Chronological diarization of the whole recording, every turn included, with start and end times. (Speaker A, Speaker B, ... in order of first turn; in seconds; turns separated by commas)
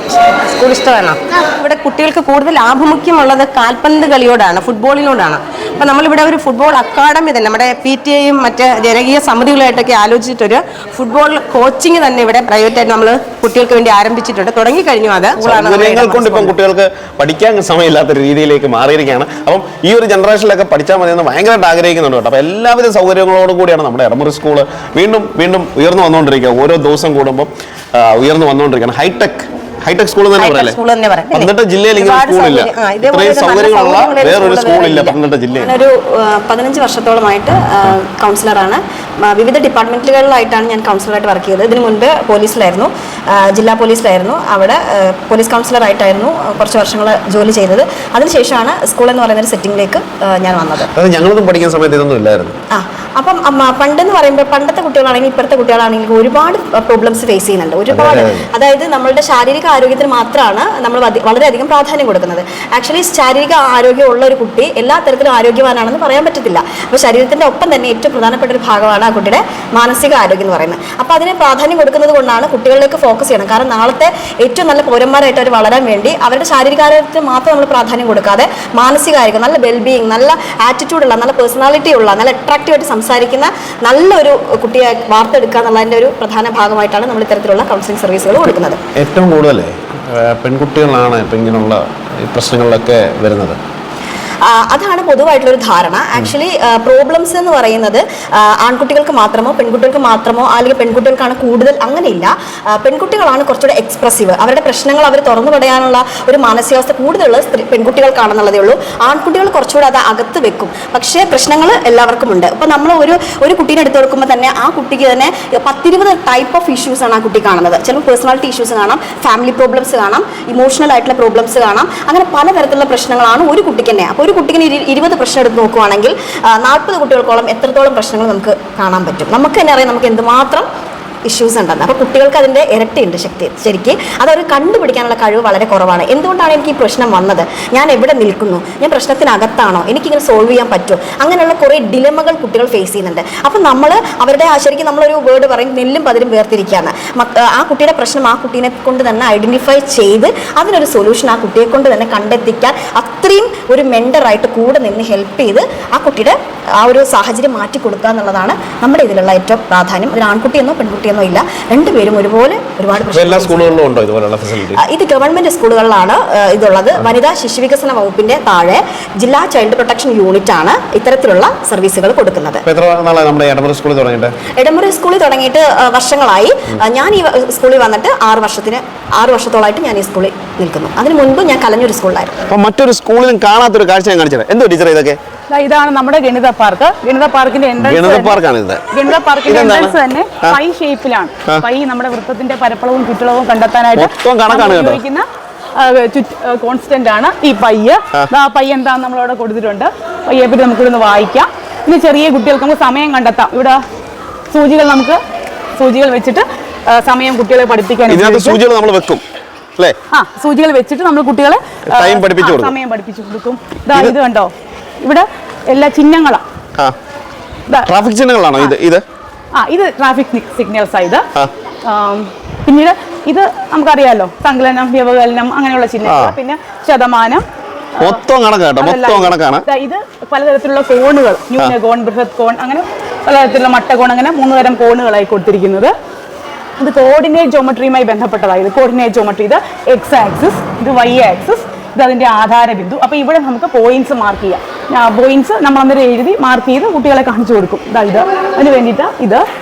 Speaker A: 0.4-16.6, Speaker B: 15.4-30.8, Speaker A: 30.4-35.1, Speaker B: 31.3-35.7, Speaker C: 35.5-50.9, Speaker B: 51.0-52.6, Speaker C: 52.7-88.8, Speaker B: 57.9-58.5, Speaker B: 89.0-93.6, Speaker C: 94.5-130.7, Speaker C: 131.3-163.7, Speaker B: 163.1-164.8, Speaker C: 164.8-172.6, Speaker B: 172.7-174.3, Speaker C: 174.6-182.4, Speaker B: 182.5-185.2, Speaker D: 185.5-188.4, Speaker B: 187.8-188.8, Speaker D: 188.9-195.2, Speaker B: 189.4-190.6, Speaker B: 193.9-195.0, Speaker D: 195.8-203.8, Speaker D: 204.5-205.2, Speaker D: 205.8-208.6, Speaker B: 208.1-209.2, Speaker D: 210.1-216.4, Speaker B: 211.9-212.8, Speaker B: 217.9-219.0, Speaker D: 219.6-221.2, Speaker D: 221.9-227.4, Speaker B: 226.0-226.4, Speaker B: 228.0-229.6, Speaker D: 228.8-235.9, Speaker D: 236.8-249.4